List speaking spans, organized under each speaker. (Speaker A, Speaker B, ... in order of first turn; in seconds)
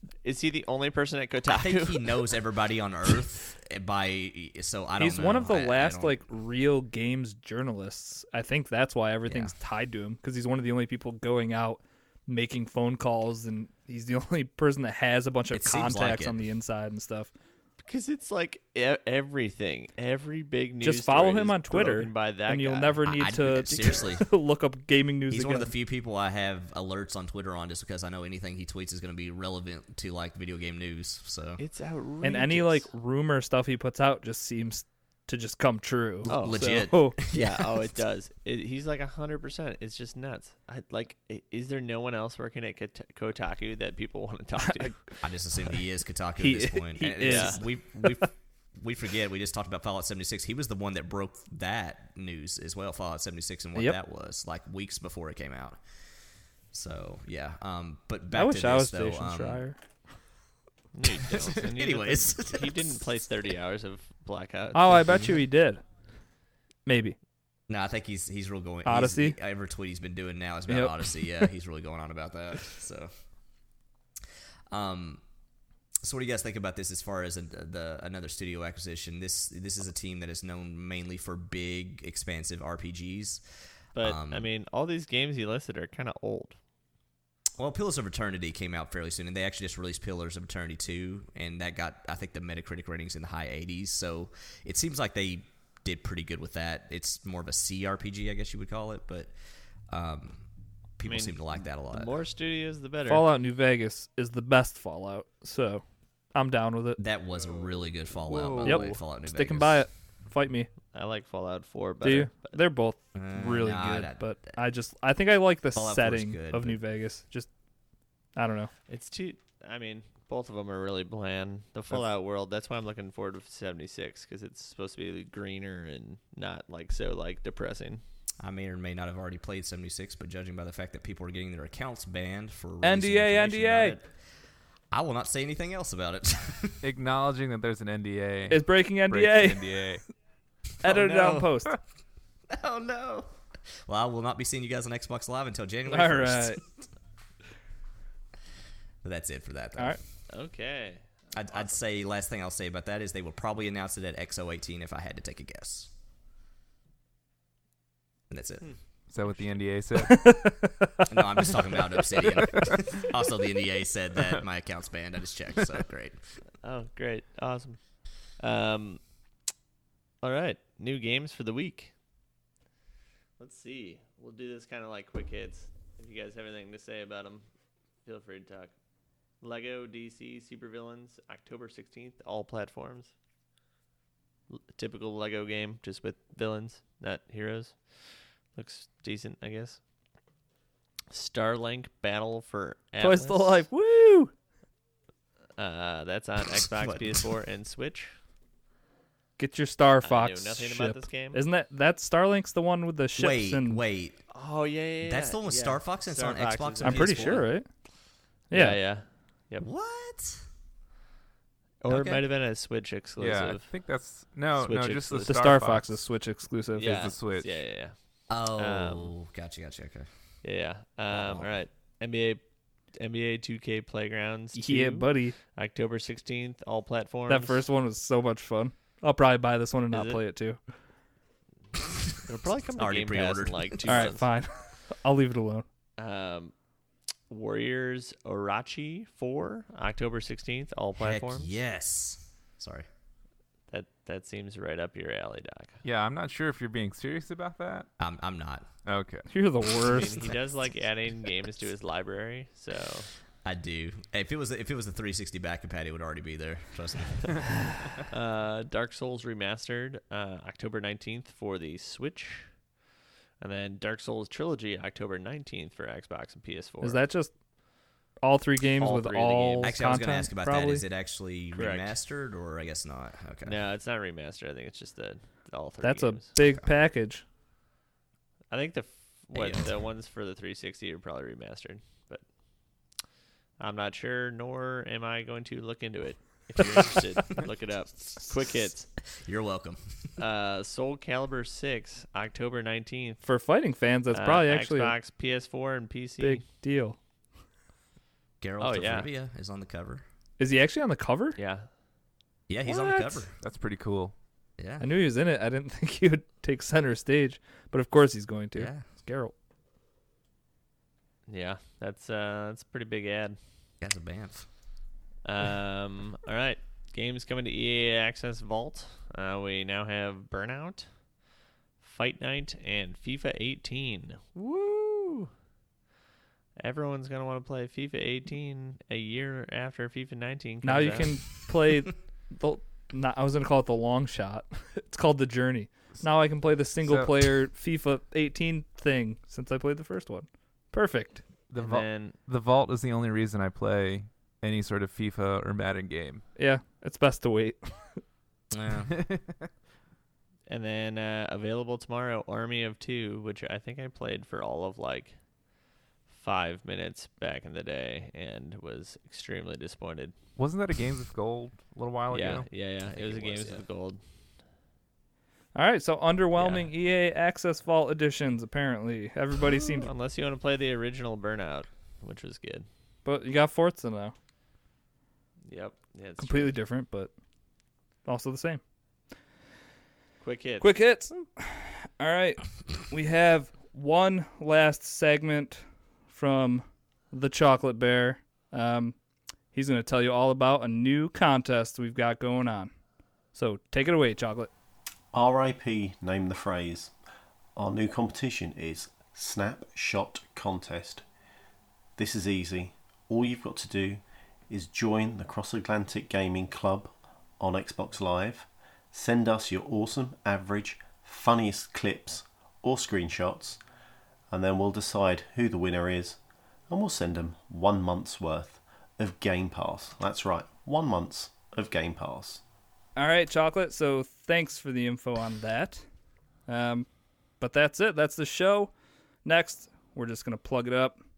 Speaker A: 0.2-2.2, 17.8-23.1, 23.7-24.1, 31.6-32.9, 36.3-45.2, 47.2-47.6, 60.9-65.3, 84.0-86.6, 101.0-103.3, 107.3-109.0, 110.9-112.6, 118.9-128.0, 140.9-141.5, 150.3-151.8, 158.6-159.6, 166.6-169.0, 170.2-171.9, 173.4-177.4, 178.1-178.7, 179.4-183.1, 184.5-189.8, 191.1-193.7, 195.6-198.1, 200.0-201.4, 204.3-207.5, 208.5-209.7, 211.8-213.7, 214.6-215.4, 216.8-217.9, 218.6-219.1, 220.4-222.4, 223.0-227.6, 229.9-230.2, 232.2-234.3, 236.0-236.5, 237.3-241.5, 243.7-245.8, 249.8-253.1, 258.0-262.5, 263.4-267.0, 268.8-269.7, 271.6-271.9, 273.4-276.2, 278.5-282.2, 283.6-288.9, 290.2-293.2, 294.1-296.5, 298.6-299.1, 301.4-301.7, 311.3-313.4, 315.2-320.9, 321.8-325.3, 326.6-331.2, 341.6-342.1, 350.5-355.2, 356.1-360.1, 362.1-364.0, 366.4-366.7, 369.7-372.7, 375.5-376.6, 380.2-380.8
Speaker B: 1.5-6.2, 9.3-9.5, 15.5-16.4, 23.0-24.3, 25.3-31.6, 36.2-37.9, 45.2-55.8, 56.7-59.6, 61.5-63.0, 67.7-73.1, 74.7-75.2, 76.0-83.4, 84.0-84.5, 87.6-99.3, 99.9-100.5, 101.0-102.2, 107.0-109.8, 113.1-114.6, 115.8-116.8, 128.4-134.2, 134.9-136.8, 142.5-143.3, 143.9-146.8, 149.0-150.0, 151.3-155.9, 158.3-158.7, 161.1-166.2, 196.7-197.2, 203.2-204.2, 205.0-207.4, 209.6-210.4, 218.3-220.1, 221.1-221.4, 232.8-234.1, 241.0-242.9, 248.0-248.7, 253.4-257.4, 269.6-273.6, 279.3-279.7, 289.1-290.1, 298.4-300.1, 302.5-303.3, 304.6-304.9, 308.6-308.9, 313.8-314.5, 348.5-348.9, 362.9-363.5
Speaker C: 5.0-17.3, 20.8-25.7, 32.2-37.2, 46.4-48.3, 58.3-59.8, 64.7-65.8, 66.9-67.2, 68.8-69.4, 70.7-71.5, 103.1-107.0, 108.6-110.7, 112.0-117.5, 118.4-118.7, 132.8-134.0, 138.5-139.7, 140.8-141.8, 145.9-146.6, 160.0-161.4, 193.0-194.3, 199.4-203.8, 206.8-207.7, 208.5-208.8, 215.3-217.0, 224.6-225.3, 227.3-230.6, 233.9-235.7, 249.3-250.3, 266.8-267.3, 268.2-270.8, 275.8-277.2, 293.2-294.9, 296.2-297.0, 300.4-301.4, 302.7-303.2, 304.8-309.3, 330.6-341.2, 346.4-348.0, 365.6-369.9, 373.1-374.1, 376.2-377.1, 378.1-378.6, 380.6-389.0, 389.5-392.7, 393.4-394.5, 423.0-425.8, 426.5-426.9, 427.4-428.7, 429.2-431.0
Speaker D: 136.8-140.0, 159.1-160.3, 213.2-215.9, 216.8-217.6, 245.8-247.9, 248.8-249.3, 303.4-304.1, 336.8-337.2, 341.5-346.2, 349.0-349.4, 360.4-362.5
Speaker E: 395.1-396.9, 397.6-401.1, 402.0-413.6, 414.3-422.4